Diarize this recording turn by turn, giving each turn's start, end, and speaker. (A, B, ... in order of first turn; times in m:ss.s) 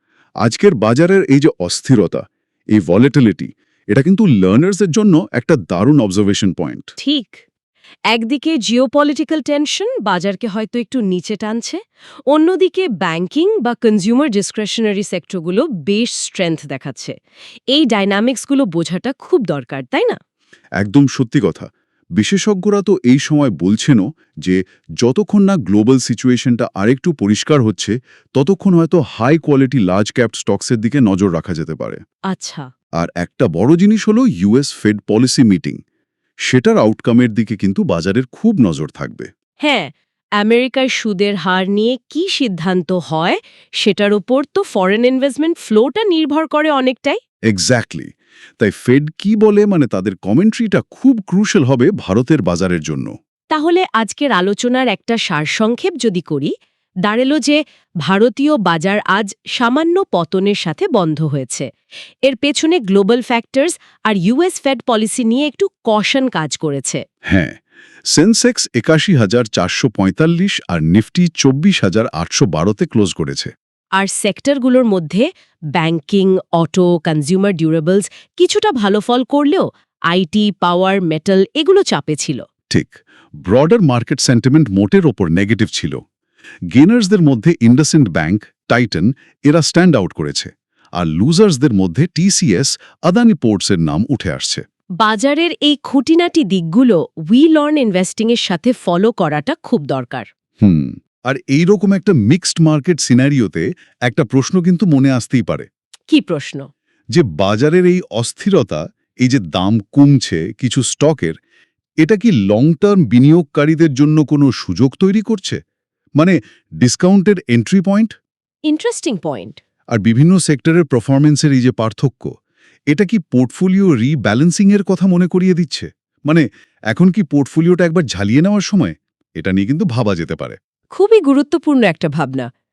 0:00.4-0:06.9 A
0:07.0-0:07.4 B
0:08.1-0:11.8 B
0:12.3-0:17.1 B
0:17.7-0:20.2 B
0:20.8-0:32.0 A
0:32.3-0:32.7 B
0:33.0-0:35.8 A
0:36.4-0:39.3 A
0:39.6-0:47.2 B
0:47.5-0:53.1 A
0:53.5-0:56.5 B
0:57.0-1:01.7 B
1:02.3-1:07.0 B
1:07.3-1:13.5 A
1:14.0-1:22.4 B
1:22.7-1:26.0 A
1:26.7-1:34.6 A
1:35.0-1:40.3 B
1:40.6-1:45.7 A
1:46.1-1:46.7 B
1:47.1-1:51.4 A
1:52.0-1:55.6 A
1:56.2-1:58.1 A
1:58.7-1:59.6 B
1:59.9-2:02.3 A
2:02.9-2:10.6 A
2:10.9-2:12.5 B